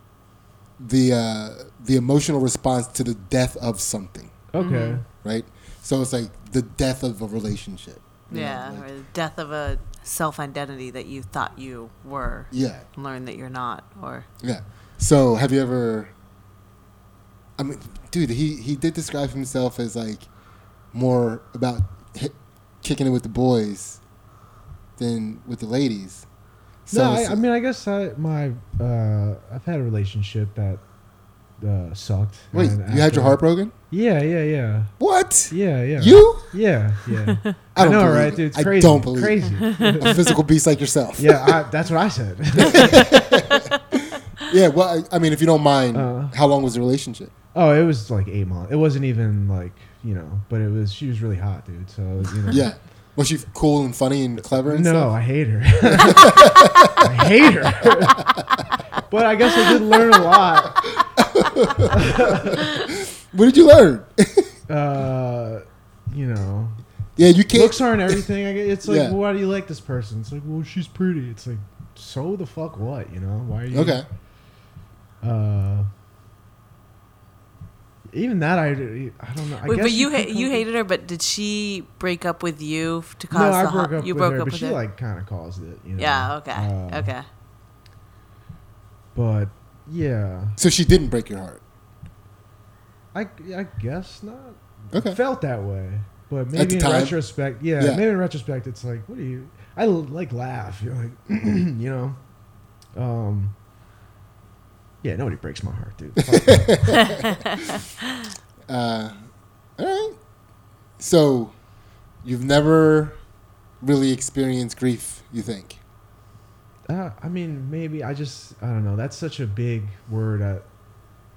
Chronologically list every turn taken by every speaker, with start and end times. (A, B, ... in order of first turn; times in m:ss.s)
0:00.8-0:04.3 A
0:04.5-0:05.0 B
0:04.6-0:05.0 C
0:05.2-0:08.9 A
0:08.3-0:14.3 C
0:12.5-0:12.9 A
0:14.4-0:16.1 A
0:17.6-0:20.3 A
0:20.9-0:24.0 A
0:25.0-0:26.3 A
0:26.9-0:27.4 A
0:26.9-0:30.8 B
0:31.6-0:33.4 B
0:32.5-0:33.7 A
0:33.9-0:34.9 B
0:35.0-0:36.5 A
0:35.5-0:40.2 B
0:37.8-0:39.4 A
0:39.7-0:40.2 C
0:40.0-0:41.6 A
0:41.2-0:43.1 B
0:42.6-0:47.3 A
0:45.9-0:46.4 B
0:47.5-0:52.7 B
0:52.5-0:55.2 A
0:54.5-0:58.3 B
0:55.9-0:57.1 A
0:58.2-0:58.6 A
0:59.1-1:00.8 B
1:00.8-1:04.5 A
1:01.9-1:02.6 B
1:04.7-1:06.8 B
1:07.2-1:08.2 A
1:07.5-1:14.0 B
1:08.8-1:09.2 A
1:13.7-1:14.0 A
1:15.2-1:15.9 B
1:18.1-1:20.6 B
1:19.6-1:24.8 C
1:23.3-1:27.1 B
1:26.0-1:27.2 C
1:29.2-1:30.6 B
1:30.6-1:31.6 A
1:33.1-1:42.2 B
1:34.9-1:35.2 A
1:36.5-1:37.2 A
1:43.0-1:43.6 B
1:45.0-1:46.8 B
1:46.3-1:47.7 A
1:47.0-1:47.6 C
1:48.7-1:49.2 A
1:49.8-1:50.2 A
1:51.0-1:51.6 A
1:52.2-1:53.2 A
1:53.8-1:55.8 A
1:56.9-2:00.6 B